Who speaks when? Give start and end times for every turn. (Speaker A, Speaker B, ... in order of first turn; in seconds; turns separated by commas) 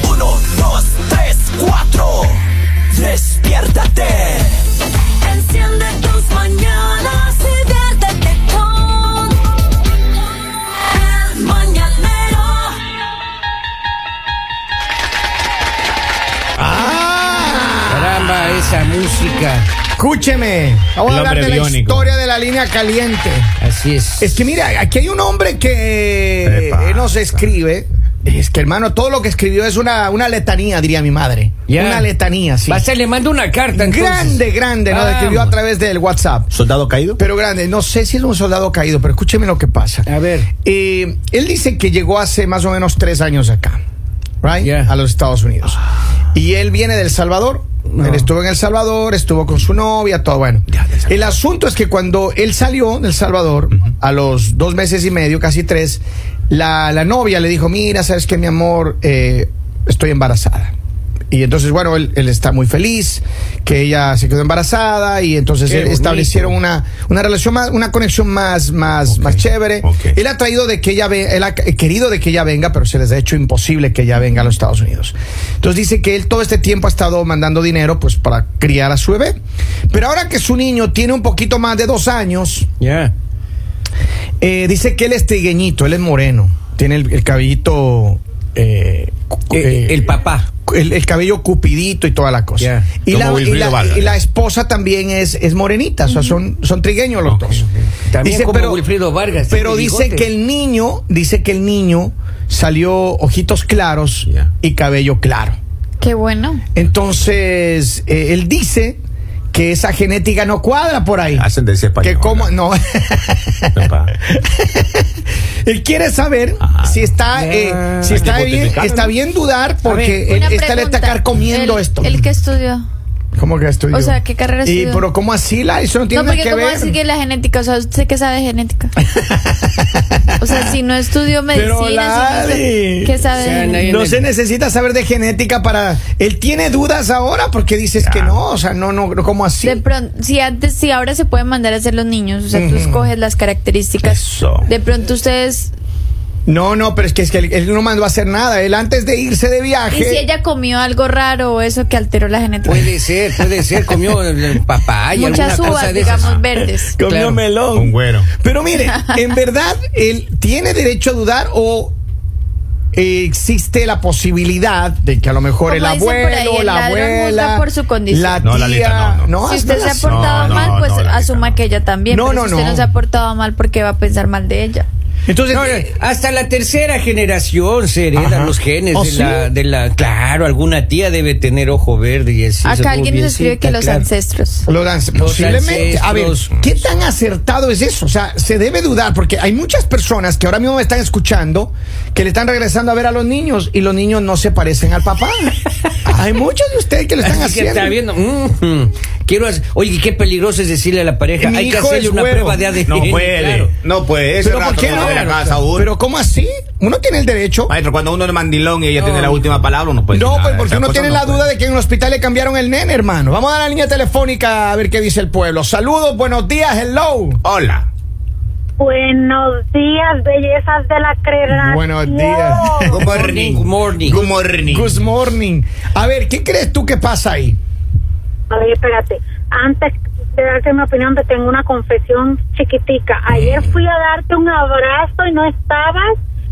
Speaker A: 0.5-2.2, Speaker A: 3.1-4.0, Speaker A: 5.3-9.0, Speaker A: 11.1-12.7, Speaker B: 16.6-18.2, Speaker A: 17.9-19.7, Speaker B: 19.9-23.5, Speaker C: 21.1-22.1, Speaker A: 23.6-24.4, Speaker B: 24.2-32.9, Speaker C: 26.4-27.4, Speaker A: 31.7-32.1, Speaker A: 32.7-35.5, Speaker B: 33.7-36.5, Speaker C: 36.5-37.2, Speaker B: 37.2-40.1, Speaker A: 40.1-40.5, Speaker B: 40.6-43.8, Speaker B: 44.4-45.8, Speaker A: 44.6-44.9, Speaker B: 46.3-60.7, Speaker A: 47.9-48.3, Speaker C: 50.7-51.3, Speaker B: 61.3-79.4, Speaker A: 65.7-66.5, Speaker C: 69.1-70.2, Speaker B: 79.9-82.7, Speaker A: 82.8-83.1, Speaker B: 84.4-90.1, Speaker A: 89.5-90.5, Speaker B: 90.7-97.7, Speaker A: 92.6-92.9, Speaker C: 93.1-94.2, Speaker D: 96.1-96.4, Speaker C: 97.3-97.7, Speaker A: 98.1-100.3, Speaker B: 98.2-98.8, Speaker B: 99.5-105.6, Speaker D: 106.0-106.6, Speaker B: 106.8-109.0, Speaker B: 109.5-111.5, Speaker C: 111.3-112.5, Speaker B: 112.0-115.1, Speaker C: 113.8-114.2, Speaker B: 115.6-122.3, Speaker C: 116.6-117.1, Speaker A: 117.3-118.3, Speaker C: 118.0-119.1, Speaker A: 119.8-120.4, Speaker D: 120.3-122.9, Speaker B: 123.4-127.0, Speaker D: 123.9-125.0, Speaker D: 126.1-128.9, Speaker B: 129.0-130.8, Speaker D: 130.4-133.8, Speaker B: 131.5-139.8, Speaker A: 133.3-134.3, Speaker C: 138.0-138.4, Speaker D: 139.6-145.7, Speaker B: 142.5-143.1, Speaker C: 144.0-144.7, Speaker B: 146.5-150.2, Speaker D: 149.9-152.9, Speaker A: 152.7-156.4, Speaker D: 155.1-157.0, Speaker B: 156.0-161.9, Speaker A: 157.0-157.4, Speaker C: 157.8-158.3, Speaker B: 162.9-170.8, Speaker D: 165.7-168.5, Speaker C: 168.4-169.3, Speaker D: 169.4-174.9, Speaker C: 170.0-171.6, Speaker B: 172.1-172.9, Speaker B: 175.3-175.9, Speaker A: 175.5-184.1, Speaker B: 178.1-179.5, Speaker D: 182.6-184.7, Speaker B: 184.7-198.0, Speaker A: 185.2-186.6, Speaker A: 197.2-203.7, Speaker B: 201.4-202.7, Speaker C: 202.9-205.9, Speaker B: 204.4-207.7, Speaker A: 204.8-205.6, Speaker C: 207.7-211.5, Speaker A: 208.9-209.7, Speaker B: 210.1-217.4, Speaker C: 217.4-217.9, Speaker E: 218.8-223.1, Speaker B: 221.5-223.0, Speaker C: 222.9-225.0, Speaker A: 223.1-224.2, Speaker B: 224.1-227.6, Speaker E: 228.5-236.2